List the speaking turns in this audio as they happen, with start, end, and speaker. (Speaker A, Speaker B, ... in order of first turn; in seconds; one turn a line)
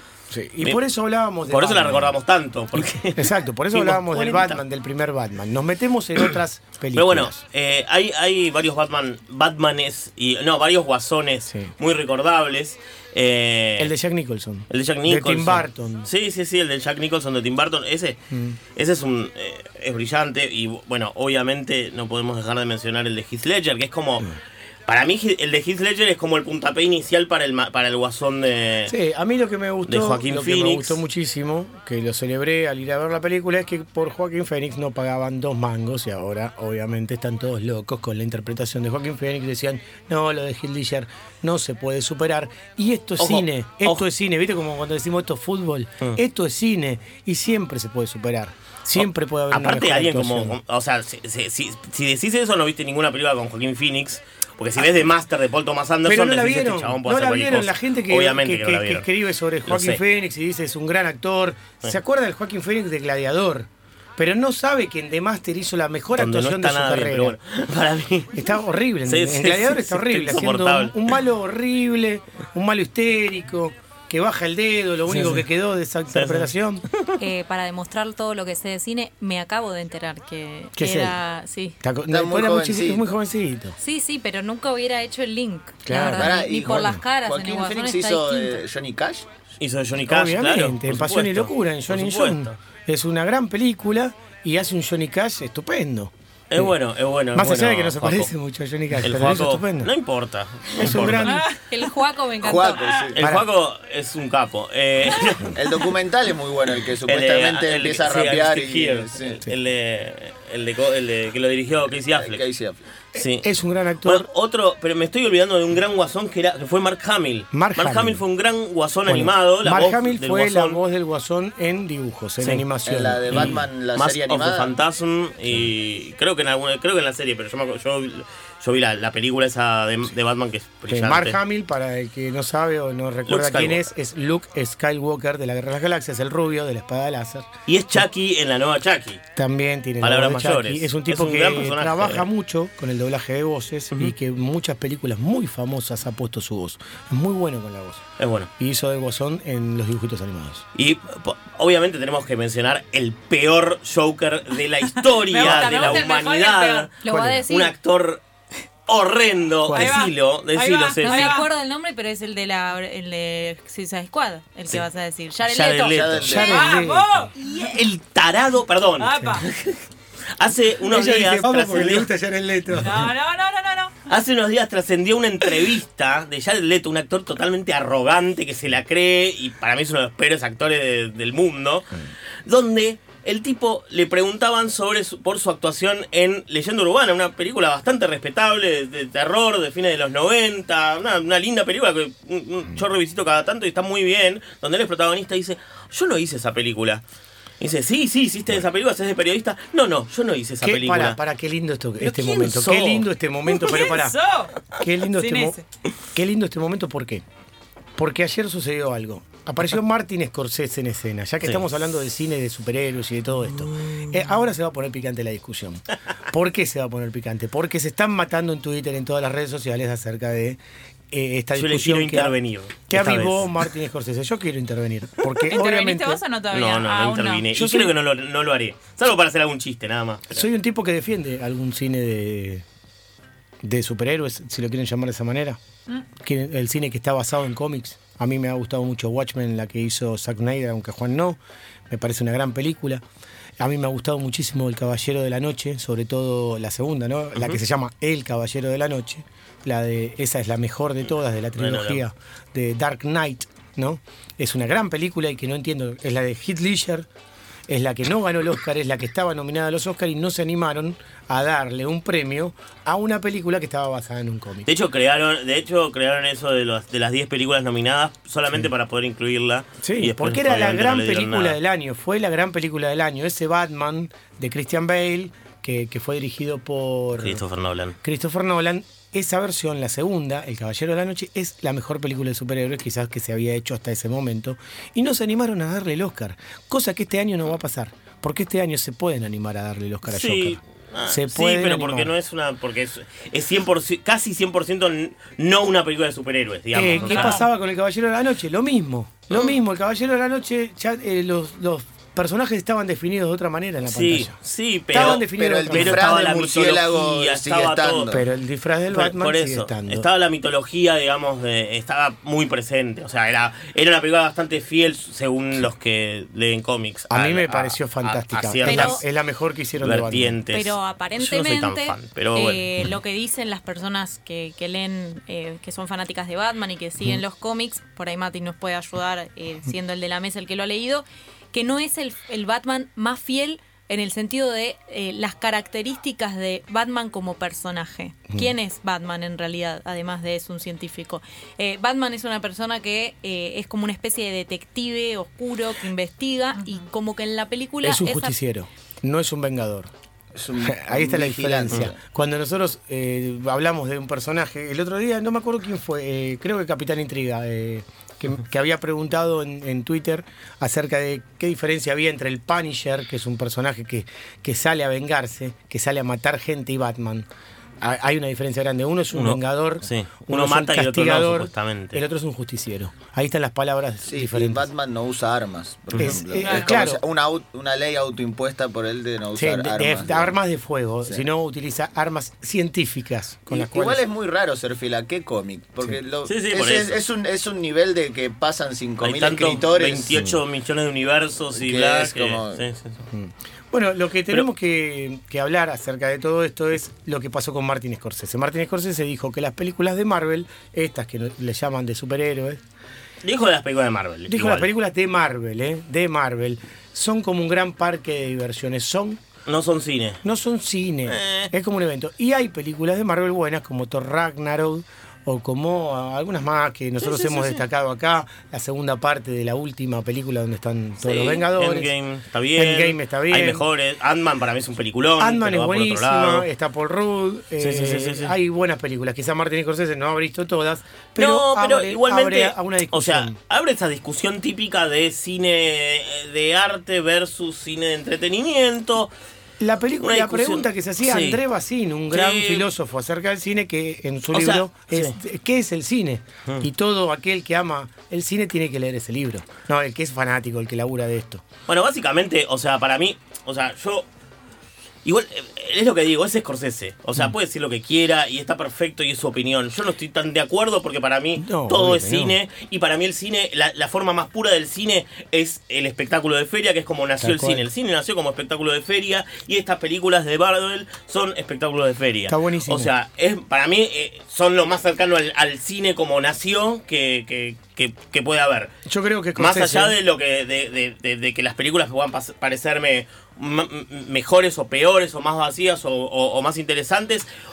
Speaker A: 0.3-2.2
Speaker B: 1.5-4.6
Speaker A: 2.8-7.4
Speaker B: 7.0-13.9
Speaker A: 13.8-16.1
Speaker B: 14.7-18.2
Speaker A: 18.3-18.6
Speaker B: 18.8-24.3
Speaker B: 24.9-28.9
Speaker A: 28.9-50.6
Speaker B: 29.9-31.0
Speaker B: 43.2-44.0
Speaker B: 49.0-59.0
Speaker A: 56.0-67.4
Speaker B: 59.7-60.0
Speaker B: 66.2-68.4
Speaker A: 68.3-76.9
Speaker B: 69.1-71.0
Speaker B: 76.1-77.1
Speaker C: 77.2-81.8
Speaker A: 80.8-81.2
Speaker A: 81.8-83.8
Speaker D: 82.1-83.0
Speaker C: 83.8-88.6
Speaker A: 85.8-87.0
Speaker D: 85.9-89.3
Speaker B: 89.6-92.5
Speaker A: 90.0-96.7
Speaker B: 96.5-98.3
Speaker A: 97.3-99.9
Speaker B: 99.0-101.4
Speaker A: 100.8-101.5
Speaker E: 101.3-101.6
Speaker C: 101.5-102.8
Speaker D: 102.4-103.2
Speaker B: 103.2-105.6
Speaker A: 103.2-103.5
Speaker D: 105.5-109.4
Speaker B: 107.0-112.4
Speaker D: 112.2-112.8
Speaker B: 113.2-113.5
Speaker A: 113.2-114.3
Speaker B: 114.0-120.8
Speaker A: 117.5-118.2
Speaker A: 119.1-123.6
Speaker D: 122.8-124.7
Speaker B: 123.3-131.4
Speaker A: 130.9-137.5
Speaker B: 133.3-133.8
Speaker B: 137.7-139.2
Speaker A: 139.4-148.0
Speaker B: 140.0-142.3
Speaker B: 148.2-148.5
Speaker A: 148.6-150.7
Speaker B: 150.8-156.9
Speaker E: 155.1-156.9
Speaker A: 155.4-156.0
Speaker C: 157.0-157.7
Speaker A: 157.1-157.5
Speaker B: 157.5-158.2
Speaker B: 158.9-161.4
Speaker A: 159.7-160.0
Speaker E: 159.7-161.5
Speaker C: 161.0-166.0
Speaker B: 165.4-166.4
Speaker D: 165.9-166.7
Speaker A: 166.2-167.3
Speaker E: 166.4-167.3
Speaker C: 167.4-167.7
Speaker B: 167.5-169.8
Speaker E: 169.0-169.5
Speaker B: 170.4-172.1
Speaker A: 170.8-173.1
Speaker E: 172.8-173.9
Speaker B: 174.1-181.9
Speaker B: 182.5-197.0
Speaker B: 197.6-201.2
Speaker A: 200.6-204.2
Speaker B: 202.0-203.1
Speaker E: 203.6-204.5
Speaker A: 204.8-205.6
Speaker E: 205.2-205.6
Speaker A: 206.1-207.2
Speaker A: 208.0-220.6
Speaker B: 213.7-214.1
Speaker A: 221.1-222.3
Speaker B: 221.6-223.5
Speaker A: 222.9-226.2
Speaker E: 225.5-227.5
Speaker B: 226.5-230.5
Speaker A: 227.5-227.9
Speaker A: 230.3-232.7
Speaker A: 233.6-235.6
Speaker A: 236.2-241.4
Speaker A: 241.9-243.0
Speaker A: 243.6-257.1
Speaker B: 251.6-252.0
Speaker A: 257.7-264.7
Speaker B: 264.7-271.6
Speaker A: 269.8-277.4
Speaker B: 277.2-278.0
Speaker A: 278.0-292.1
Speaker B: 290.1-297.4
Speaker A: 296.7-304.4
Speaker E: 297.0-297.4
Speaker B: 303.9-308.1
Speaker A: 304.9-306.1
Speaker D: 304.9-308.2
Speaker A: 308.1-310.1
Speaker B: 308.9-319.0
Speaker A: 317.1-320.4
Speaker C: 318.6-319.0
Speaker B: 319.8-322.6
Speaker C: 320.5-348.3
Speaker A: 347.8-349.9
Speaker D: 350.4-352.0
Speaker A: 350.6-367.3
Speaker A: 367.8-374.7
Speaker B: 369.1-372.0
Speaker D: 374.1-380.3
Speaker A: 376.0-377.0
Speaker E: 376.4-376.7
Speaker A: 379.4-384.0
Speaker D: 383.5-390.3
Speaker B: 386.2-387.0
Speaker B: 389.0-393.1
Speaker D: 391.6-392.6
Speaker A: 393.1-402.6
Speaker B: 403.2-404.7
Speaker A: 404.3-409.2
Speaker B: 409.5-410.2
Speaker A: 410.2-421.9
Speaker B: 411.1-411.5
Speaker B: 417.0-417.6
Speaker B: 421.0-426.5
Speaker A: 422.6-423.6
Speaker A: 425.2-433.4
Speaker B: 427.6-428.3
Speaker B: 431.2-439.1
Speaker A: 439.6-451.4
Speaker B: 440.0-441.4
Speaker B: 442.1-442.7
Speaker B: 444.3-445.1
Speaker B: 451.7-454.1
Speaker B: 455.1-478.7
Speaker A: 461.4-462.4
Speaker A: 467.2-467.7
Speaker A: 472.3-472.9
Speaker A: 478.9-480.0
Speaker B: 479.4-487.3